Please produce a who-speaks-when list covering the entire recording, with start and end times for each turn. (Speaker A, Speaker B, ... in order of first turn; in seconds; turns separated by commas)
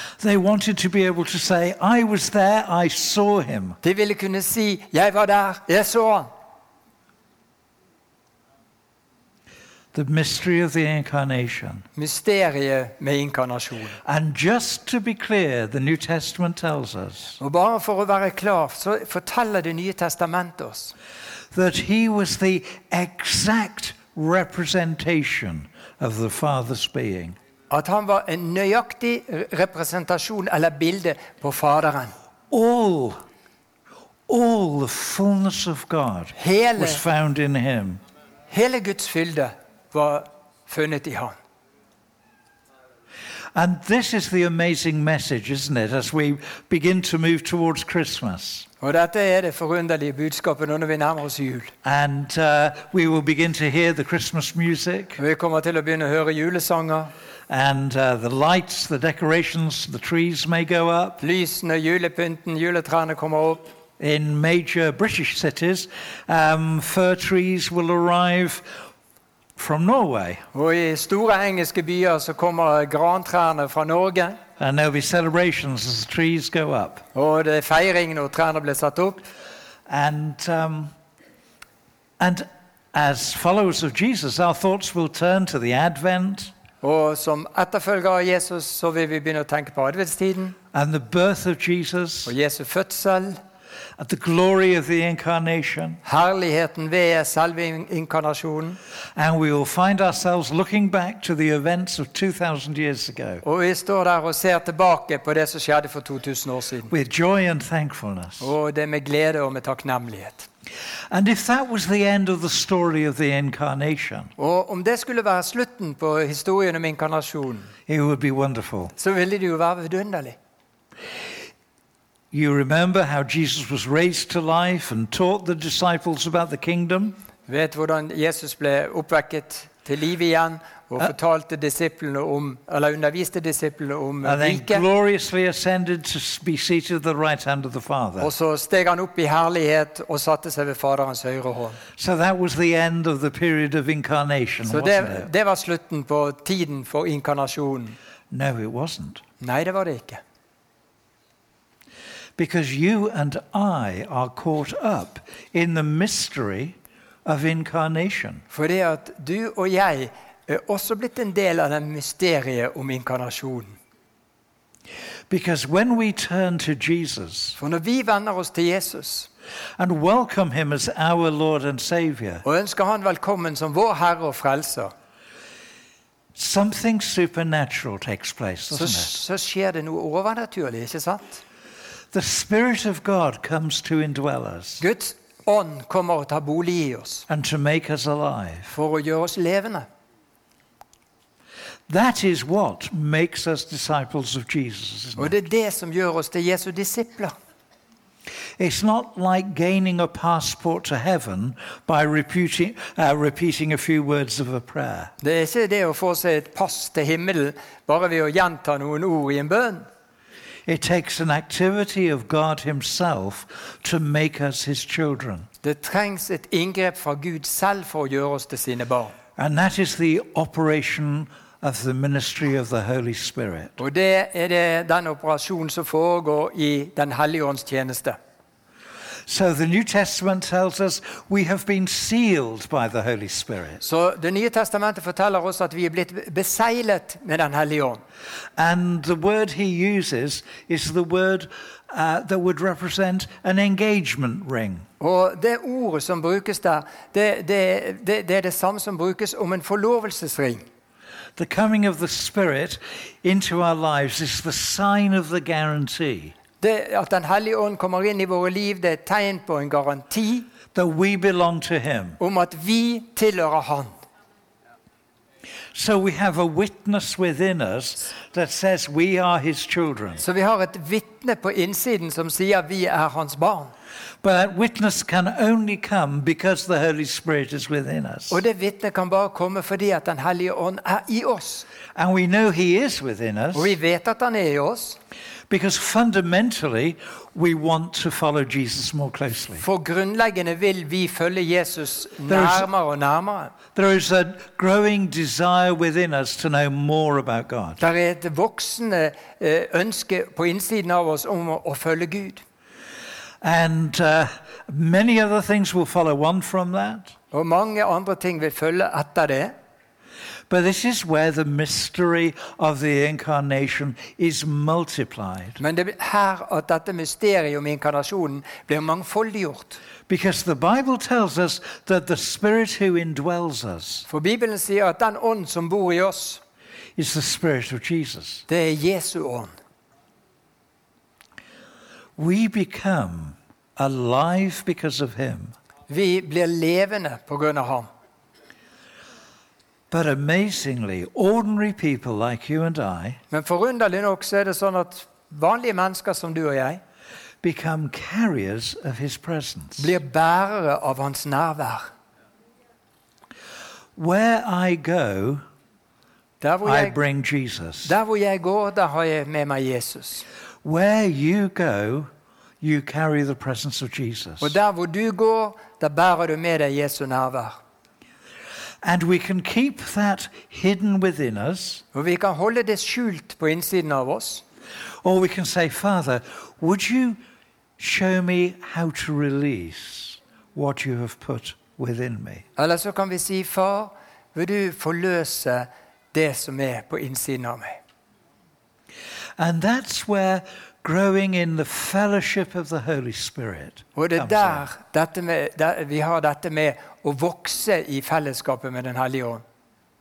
Speaker A: 0.2-3.8, Speaker B: 3.8-6.3, Speaker A: 9.9-11.9, Speaker B: 12.0-14.0, Speaker A: 14.0-17.4, Speaker B: 17.4-20.9, Speaker A: 21.5-27.4, Speaker B: 27.7-32.1, Speaker A: 32.5-33.2, Speaker A: 34.3-38.0, Speaker B: 36.4-37.0, Speaker B: 38.5-41.4, Speaker A: 43.5-48.7, Speaker B: 48.8-51.7, Speaker A: 51.8-55.2, Speaker B: 55.2-57.1, Speaker A: 57.5-61.2, Speaker B: 61.2-63.6, Speaker A: 64.0-68.7, Speaker A: 69.6-70.5, Speaker B: 70.5-74.4, Speaker A: 74.6-77.1, Speaker B: 77.2-79.2, Speaker A: 79.9-80.9, Speaker A: 82.2-86.5, Speaker B: 86.8-90.6, Speaker A: 90.7-92.3, Speaker B: 92.3-93.4, Speaker A: 94.0-96.0, Speaker B: 96.0-98.8, Speaker A: 99.2-103.4, Speaker B: 103.4-106.9, Speaker A: 106.9-108.5, Speaker B: 108.4-110.5, Speaker A: 111.1-114.3, Speaker B: 114.4-117.7, Speaker A: 117.9-118.9, Speaker B: 119.0-120.4, Speaker A: 122.3-127.2, Speaker B: 127.5-134.8, Speaker A: 134.2-138.3, Speaker B: 138.2-141.8, Speaker A: 142.0-145.3, Speaker B: 144.7-148.0, Speaker A: 148.3-149.2, Speaker B: 149.4-150.2, Speaker A: 152.4-158.4, Speaker B: 158.5-163.8, Speaker A: 165.3-167.6, Speaker B: 167.6-169.3, Speaker A: 169.8-172.4, Speaker B: 172.4-174.9, Speaker A: 176.3-179.2, Speaker B: 178.7-181.4, Speaker A: 182.1-184.8, Speaker B: 184.8-187.2, Speaker A: 187.3-188.7, Speaker B: 188.7-189.9, Speaker A: 191.9-195.3, Speaker B: 195.2-197.3, Speaker A: 198.6-205.1, Speaker B: 205.2-209.9, Speaker A: 210.7-215.5, Speaker B: 215.6-219.2, Speaker A: 219.4-223.8, Speaker B: 223.8-228.2, Speaker A: 229.3-233.8, Speaker B: 233.8-238.0, Speaker A: 238.6-244.9, Speaker B: 245.0-250.6, Speaker A: 251.4-256.4, Speaker B: 256.6-260.5, Speaker A: 260.7-262.2, Speaker B: 262.2-263.9, Speaker A: 265.7-270.2, Speaker B: 270.2-273.7, Speaker A: 274.2-278.4, Speaker B: 278.3-281.7, Speaker A: 281.9-283.7, Speaker B: 283.5-285.0, Speaker A: 285.5-289.6, Speaker B: 289.6-293.6, Speaker A: 292.3-292.7, Speaker A: 293.8-297.8, Speaker B: 297.8-302.4, Speaker A: 303.4-307.1, Speaker B: 307.3-309.6, Speaker A: 310.5-315.6, Speaker B: 315.6-319.8, Speaker A: 320.1-324.1, Speaker B: 324.1-326.4, Speaker A: 327.0-328.4, Speaker B: 328.5-329.5, Speaker A: 332.2-335.6, Speaker B: 335.9-337.9, Speaker A: 339.9-343.2, Speaker B: 343.3-346.8, Speaker A: 347.4-349.9, Speaker B: 349.8-351.9, Speaker A: 354.0-355.4, Speaker B: 356.4-357.0, Speaker A: 356.6-357.9, Speaker B: 357.9-360.2, Speaker A: 360.6-362.1, Speaker A: 362.6-364.6, Speaker B: 364.4-367.6, Speaker A: 368.8-371.8, Speaker B: 371.9-374.4, Speaker A: 375.0-377.2, Speaker A: 377.8-382.4, Speaker B: 382.6-387.8, Speaker A: 389.4-394.7, Speaker B: 394.0-399.4